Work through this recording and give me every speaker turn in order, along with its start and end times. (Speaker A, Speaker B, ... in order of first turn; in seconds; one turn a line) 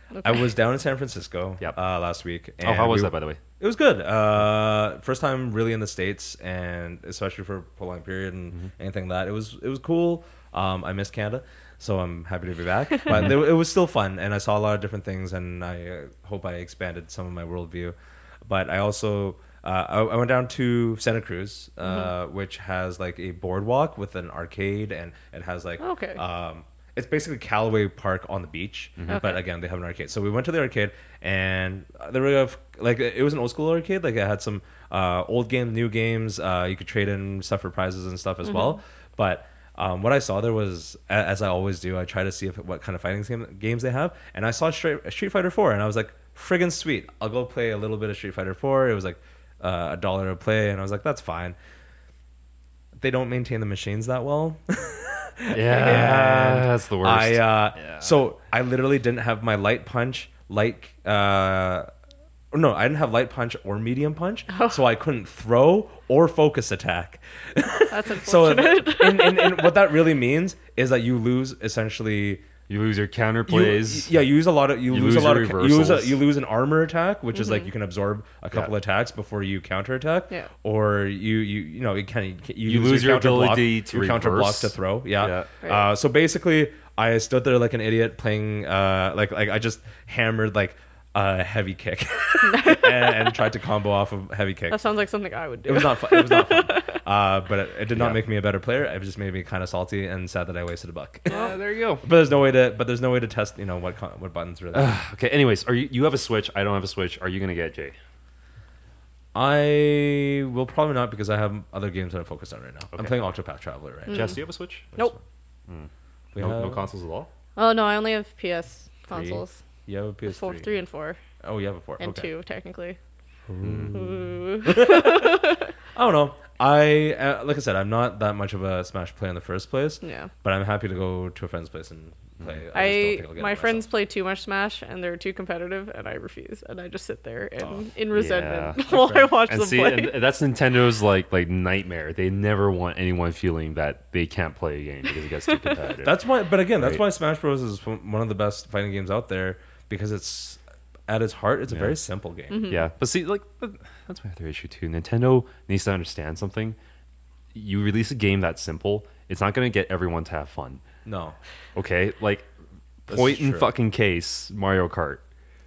Speaker A: 0.1-0.5
Speaker B: 0.2-51.6
Speaker C: 2.6-3.4
Speaker C: 13.1-13.3
Speaker A: 25.8-26.2
Speaker C: 29.0-29.2
Speaker A: 29.1-29.4
Speaker A: 38.5-38.8
Speaker B: 53.0-61.9
Speaker C: 55.5-58.1
Speaker B: 62.5-72.5
Speaker A: 67.9-69.7
Speaker C: 72.7-74.1
Speaker B: 73.5-94.8
Speaker C: 74.9-76.2
Speaker A: 77.3-77.7
Speaker C: 82.7-85.5
Speaker A: 92.5-93.3
Speaker A: 94.7-97.0
Speaker B: 95.7-105.0
Speaker C: 98.0-98.2
Speaker C: 101.3-102.0
Speaker C: 104.7-108.0
Speaker B: 109.3-114.4
Speaker A: 114.1-115.1
Speaker C: 114.1-114.9
Speaker C: 115.7-117.3
Speaker B: 116.3-116.8
Speaker A: 117.6-119.6
Speaker B: 119.1-120.7
Speaker A: 120.3-121.2
Speaker B: 121.4-122.3
Speaker A: 122.0-123.0
Speaker B: 123.5-133.9
Speaker C: 123.6-124.1
Speaker A: 123.9-125.7
Speaker A: 130.0-130.3
Speaker A: 132.7-140.2
Speaker B: 137.6-137.8
Speaker C: 138.1-146.2
Speaker B: 138.9-139.2
Speaker B: 146.0-152.8
Speaker C: 146.8-147.0
Speaker C: 151.7-152.0
Speaker A: 152.5-152.8
Speaker C: 152.6-156.8
Speaker C: 157.5-160.8
Speaker B: 161.1-161.4
Speaker C: 161.8-162.5
Speaker C: 163.1-165.2
Speaker B: 163.1-163.7